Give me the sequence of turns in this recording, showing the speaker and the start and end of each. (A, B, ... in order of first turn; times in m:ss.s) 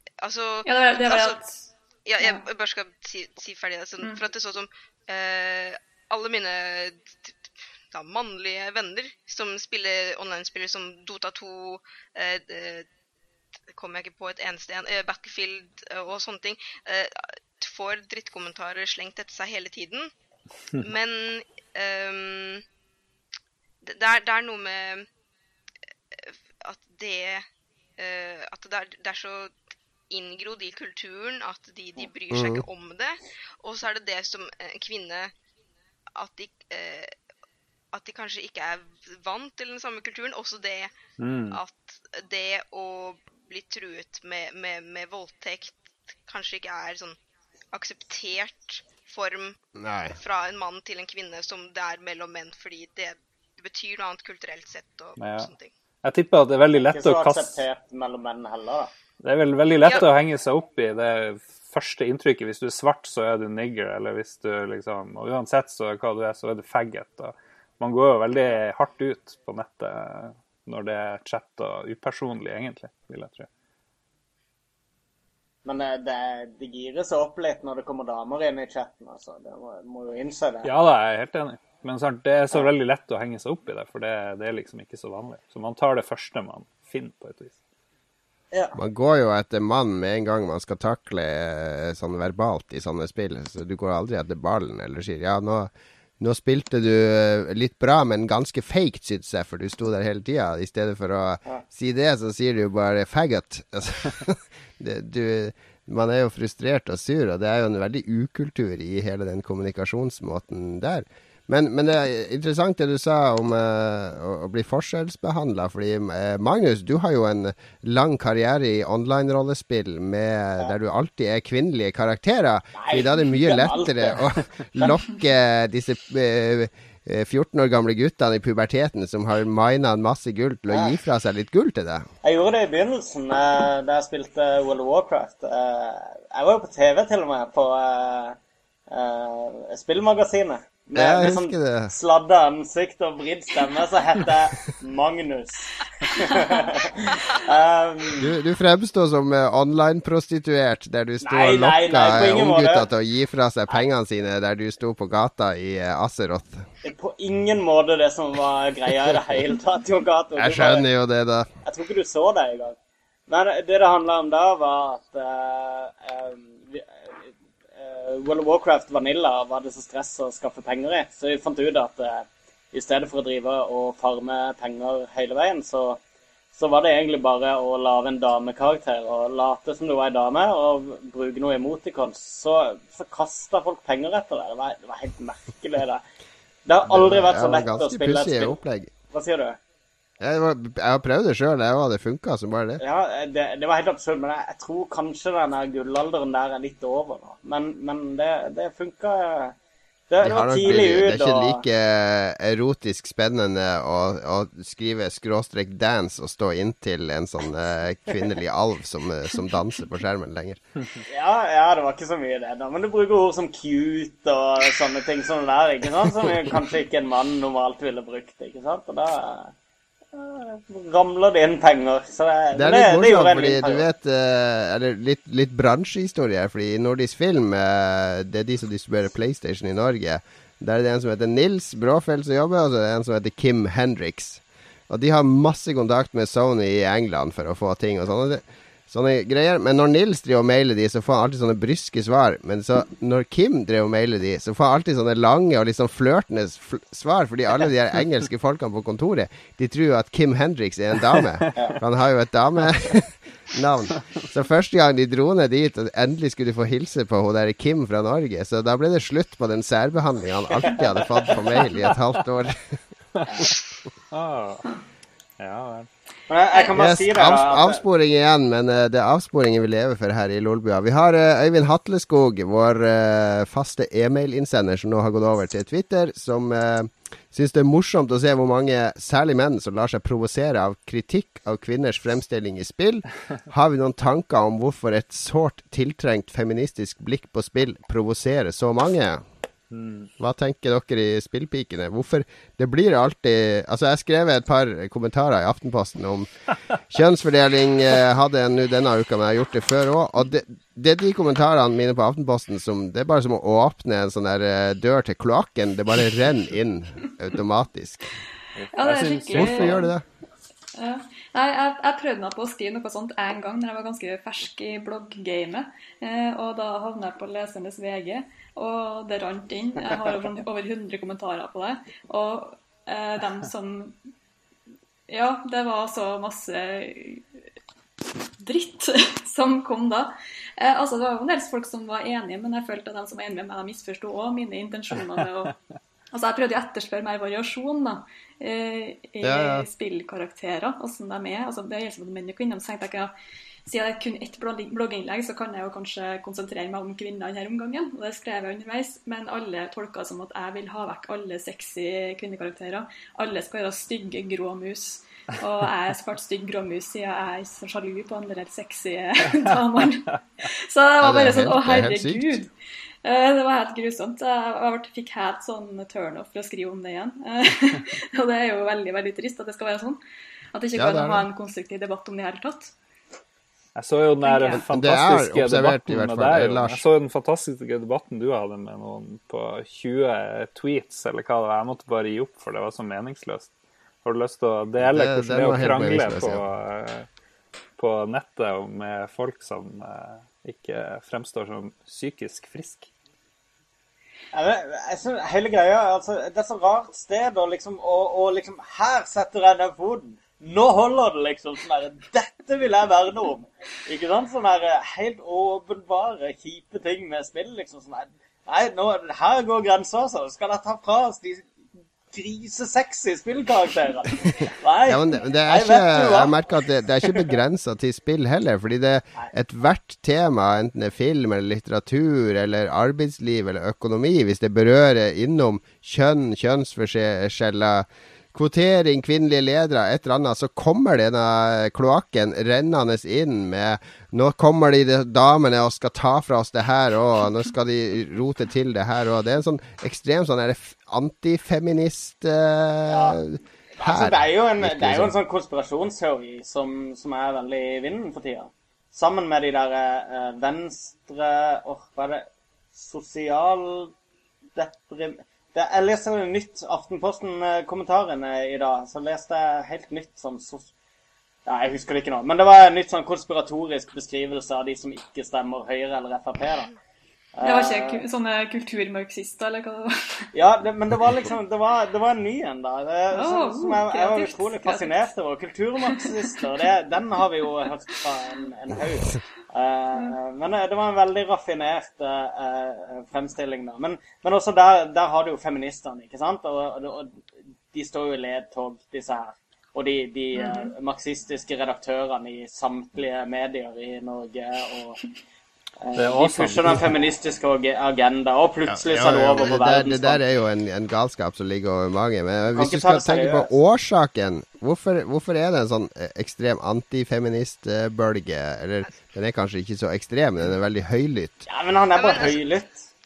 0:00.2-0:01.4 A
0:00.6-0:01.6 B
0:02.0-0:07.4 A
0:07.9-0:12.9 A
0:13.7-0:20.1 A
0:20.8-0:22.6 A
0:23.8-0:25.1 A
0:26.1-0:27.5 A
0:28.0-0:29.5 A
0:30.1-0:35.3 A
0:32.3-0:32.6 C
0:36.1-0:37.1 A
0:37.9-0:40.9 A
0:41.2-0:41.6 D
0:41.5-0:47.2 A
0:47.7-0:49.6 A
0:49.8-0:50.2 C
0:50.2-0:55.7 A
0:55.2-0:55.5 D
0:56.0-0:57.6 D
0:56.8-0:58.9 E
0:59.2-1:13.5 D
1:15.6-1:20.7 E
1:20.6-1:27.5 D
1:28.7-2:12.1 C
2:02.8-2:05.0 E
2:12.2-2:18.4 E
2:18.9-2:28.3 E
2:20.9-2:21.9 C
2:28.2-2:36.6 C
2:31.2-2:32.8 E
2:36.8-2:40.8 E
2:40.4-2:41.5 C
2:41.6-2:42.8 E
2:43.3-2:56.0 E
2:56.5-3:06.0 E
3:06.6-3:08.6 E
3:06.9-3:08.9 C
3:09.1-3:09.6 E
3:10.2-3:12.8 C
3:12.8-3:19.6 E
3:20.1-3:21.6 E
3:20.2-3:30.6 C
3:31.1-3:39.5 E
3:40.1-3:43.8 E
3:42.5-4:22.8 C
4:23.1-4:23.4 D
4:24.1-4:24.7 D
4:25.4-4:25.9 D
4:26.3-4:27.8 E
4:26.7-4:49.2 C
4:49.7-4:50.1 D
4:50.2-4:56.3 C
4:56.9-5:08.1 C
5:08.6-5:09.8 D
5:08.7-5:09.9 B
5:09.3-5:10.0 C
5:10.8-5:24.0 B
5:25.1-5:27.2 B
5:28.4-5:35.5 B
5:36.1-5:43.1 B
5:39.2-5:39.7 C
5:43.6-6:02.5 B
6:01.0-6:02.4 C
6:03.0-6:10.0 B
6:10.5-6:12.7 B
6:10.7-6:11.2 C
6:13.8-6:23.5 D
6:14.2-6:14.6 B
6:14.5-6:16.8 C
6:24.0-6:27.1 D
6:24.8-6:26.4 C
6:27.8-6:32.9 D
6:34.3-6:51.4 E
6:52.1-6:56.4 E
6:54.8-7:25.1 C
7:22.9-7:23.2 E
7:23.8-7:33.9 E
7:34.6-7:40.7 E
7:41.4-7:46.7 E
7:47.3-7:48.0 E
7:47.4-7:50.3 B
7:50.3-8:07.2 E
7:53.1-7:55.0 B
8:07.7-8:15.0 E
8:10.3-8:10.7 B
8:15.8-8:20.2 E
8:16.0-8:16.9 D
8:18.7-8:31.4 C
8:22.5-8:23.5 E
8:31.5-8:32.8 E
8:31.9-8:32.4 A